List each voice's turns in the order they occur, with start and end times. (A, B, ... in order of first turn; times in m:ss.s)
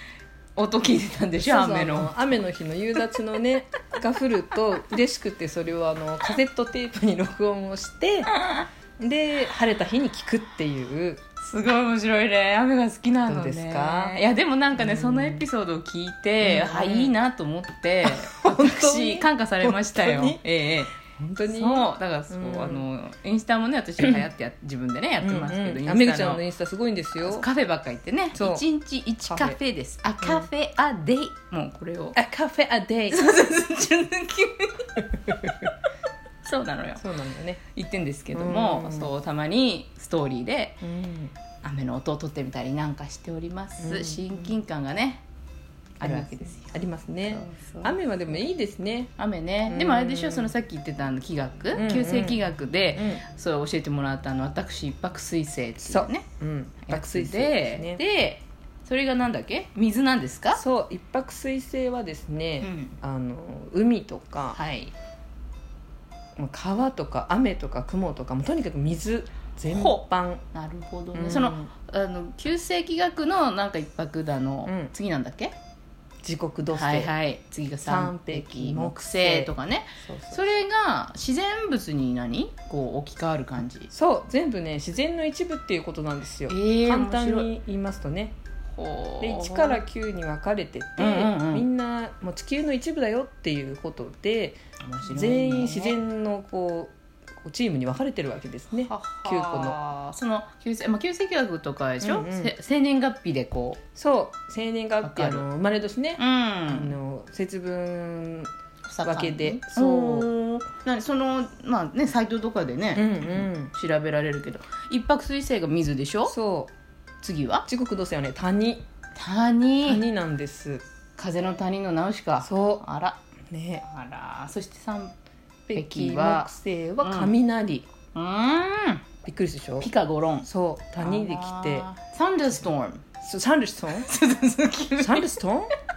0:00.6-0:02.3 A
0:01.4-0:08.3 B
0:08.3-0:08.7 A
0:09.0-0:11.2 B
0:11.4-0:20.9 A
0:13.2-0:15.4 B
0:16.4-0:17.1 B
0:18.0-0:20.4 B
0:21.0-0:22.8 B
0:21.4-0:26.4 A
0:25.2-0:27.5 B
0:27.2-0:32.2 A
0:28.3-0:28.6 B
0:29.3-0:29.6 B
0:30.2-0:30.5 B
0:32.1-0:33.2 B
0:33.1-0:35.7 A
0:36.4-0:37.0 A
0:37.0-0:37.6 B
0:37.6-0:40.8 A
0:38.3-0:39.1 B
0:40.8-0:41.3 B
0:41.6-0:45.2 A
0:43.8-0:44.6 B
0:46.0-0:48.0 A
0:46.0-0:49.1 B
0:49.2-0:56.2 A
0:49.7-0:50.5 B
0:51.7-0:53.2 B
0:55.8-0:58.0 B
0:56.8-1:00.6 A
1:00.5-1:04.6 B
1:02.6-1:03.0 A
1:04.5-1:04.9 A
1:06.4-1:10.4 B
1:09.7-1:10.0 A
1:10.5-1:15.5 A
1:11.1-1:11.7 B
1:14.6-1:14.9 B
1:16.2-1:17.1 B
1:16.7-1:23.9 A
1:17.8-1:20.5 B
1:23.9-1:28.3 B
1:26.5-1:27.5 A
1:28.7-1:29.8 A
1:29.2-1:39.8 B
1:31.0-1:31.6 A
1:34.8-1:36.0 A
1:38.9-1:43.8 A
1:42.0-1:42.5 B
1:43.9-1:48.5 B
1:45.0-1:45.4 A
1:46.2-1:46.9 A
1:48.8-1:56.3 A
1:49.0-1:50.3 B
1:52.9-1:53.7 B
1:56.3-1:56.7 B
1:57.2-1:57.6 A
1:57.7-1:58.8 B
1:59.2-2:00.0 A
1:59.8-2:00.8 B
2:01.2-2:03.2 A
2:02.4-2:02.8 B
2:03.5-2:03.8 B
2:03.8-2:05.1 A
2:05.7-2:07.8 B
2:05.7-2:07.3 A
2:08.1-2:09.0 A
2:09.2-2:09.9 B
2:09.8-2:10.5 A
2:10.4-2:11.9 B
2:11.0-2:13.0 A
2:13.2-2:14.1 B
2:13.9-2:15.3 A
2:15.0-2:15.7 B